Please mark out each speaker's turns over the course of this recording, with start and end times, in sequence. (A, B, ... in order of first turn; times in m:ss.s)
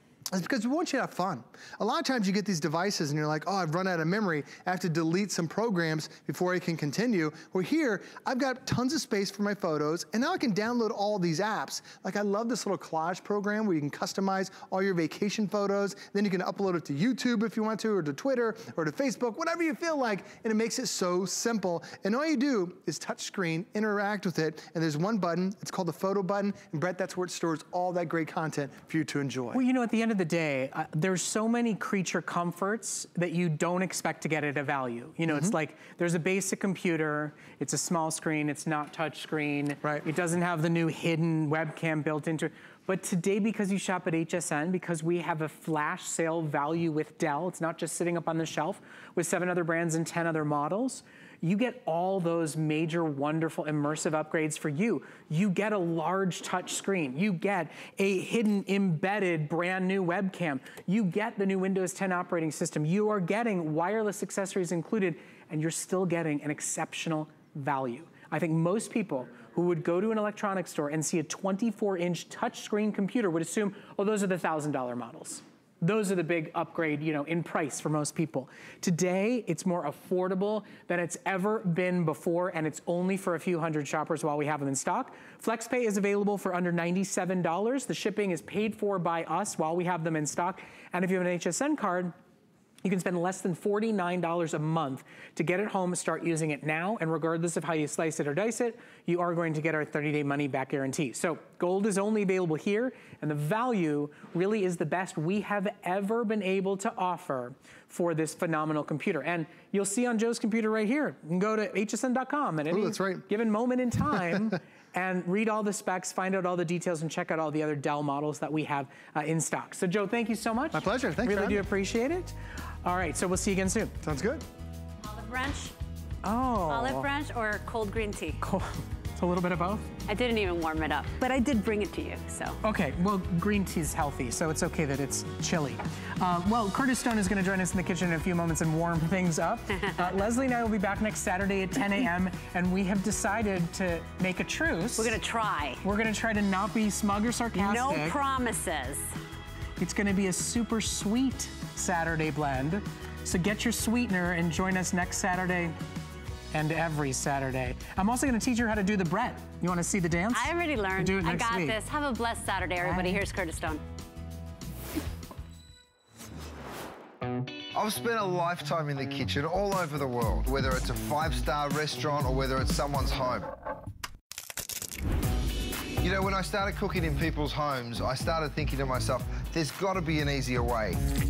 0:00.3-0:29.6 A
0:29.5-1:32.1 B
0:35.3-0:35.5 A
1:32.8-2:03.9 B
1:52.7-1:53.2 A
2:00.7-2:01.6 A
2:04.0-2:04.4 A
2:05.0-2:05.7 C
2:06.2-2:07.1 B
2:06.7-2:08.4 C
2:08.4-2:09.9 B
2:10.1-2:12.6 C
2:12.6-2:25.2 B
2:25.0-2:25.8 C
2:25.8-2:28.2 B
2:27.6-2:29.2 C
2:29.8-2:35.8 B
2:36.5-2:41.8 B
2:40.3-2:43.8 C
2:42.8-2:43.2 B
2:47.7-2:53.5 D
2:56.0-3:01.0 D